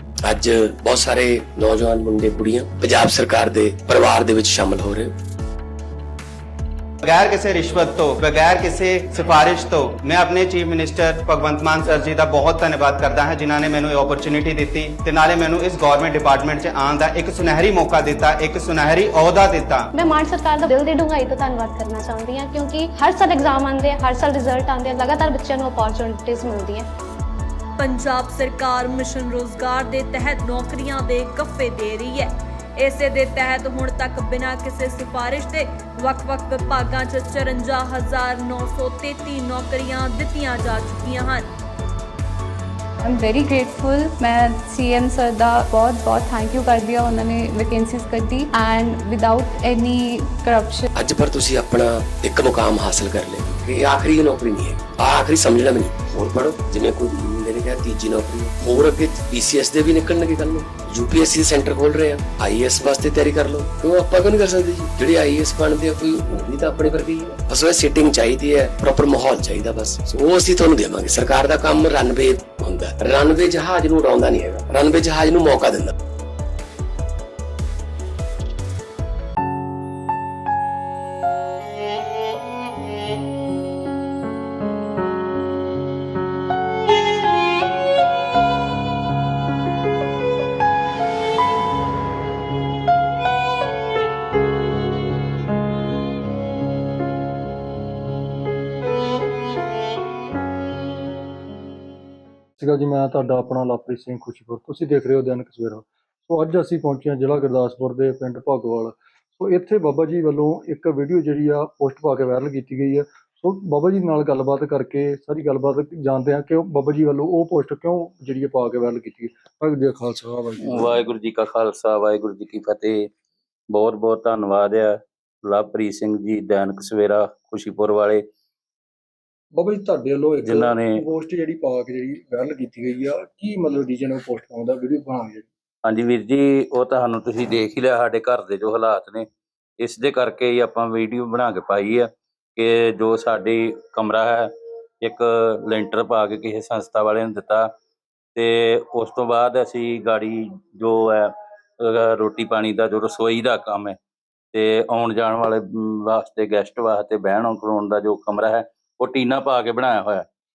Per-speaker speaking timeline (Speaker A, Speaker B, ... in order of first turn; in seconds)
Speaker A: 0.2-5.1, 50.9-75.9
Speaker B: 7.0-19.9
Speaker C: 19.9-26.9
Speaker D: 27.8-41.5
Speaker E: 43.0-50.9
Speaker F: 102.6-121.1, 129.5-135.5
Speaker G: 120.6-123.1, 123.7-128.2, 130.4-131.0, 135.8-139.2, 139.8-144.5, 145.0-147.7, 148.3-154.0, 154.5-160.3